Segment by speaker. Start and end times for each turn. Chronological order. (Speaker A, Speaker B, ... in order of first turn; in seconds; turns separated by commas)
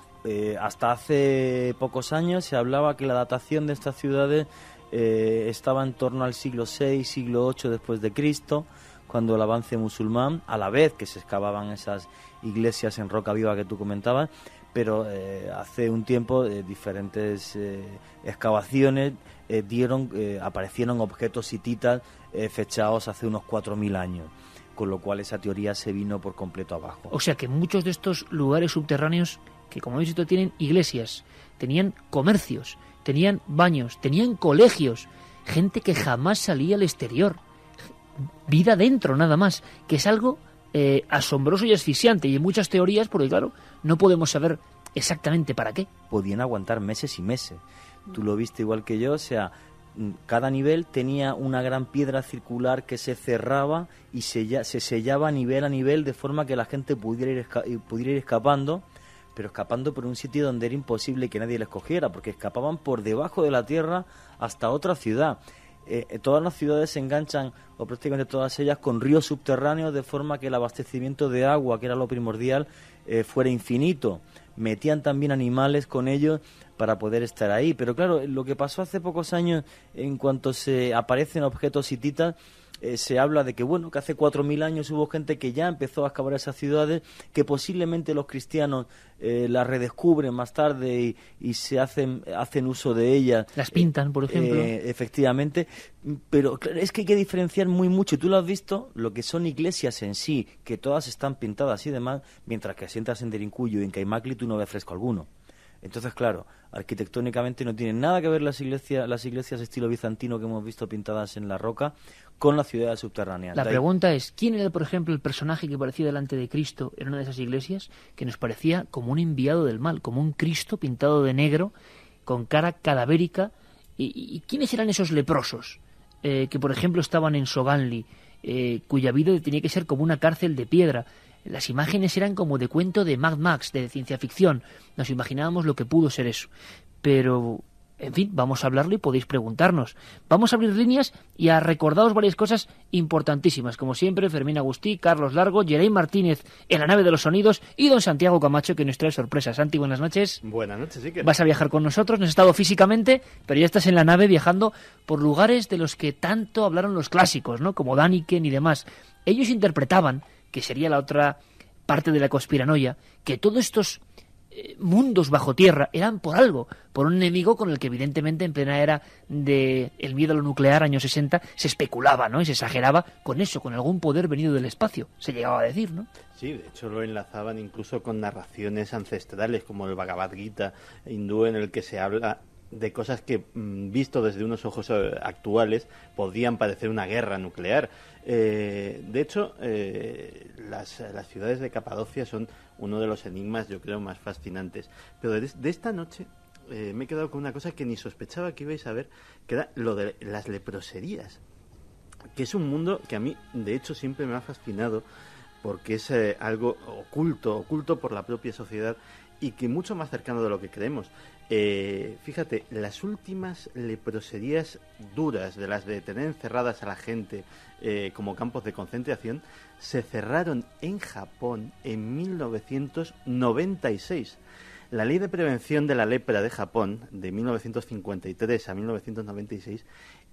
Speaker A: 0.2-27.1, Speaker B: 27.1-37.4, Speaker B: 38.5-45.9, Speaker A: 46.1-58.8, Speaker A: 59.3-105.3, Speaker B: 93.5-94.7, Speaker A: 105.8-113.8, Speaker B: 113.5-121.7, Speaker B: 122.2-136.5, Speaker B: 137.0-150.4, Speaker C: 150.4-151.3, Speaker B: 151.2-164.0, Speaker B: 164.5-176.1, Speaker C: 176.3-201.4, Speaker C: 202.3-205.0, Speaker C: 205.6-224.4, Speaker C: 224.9-229.8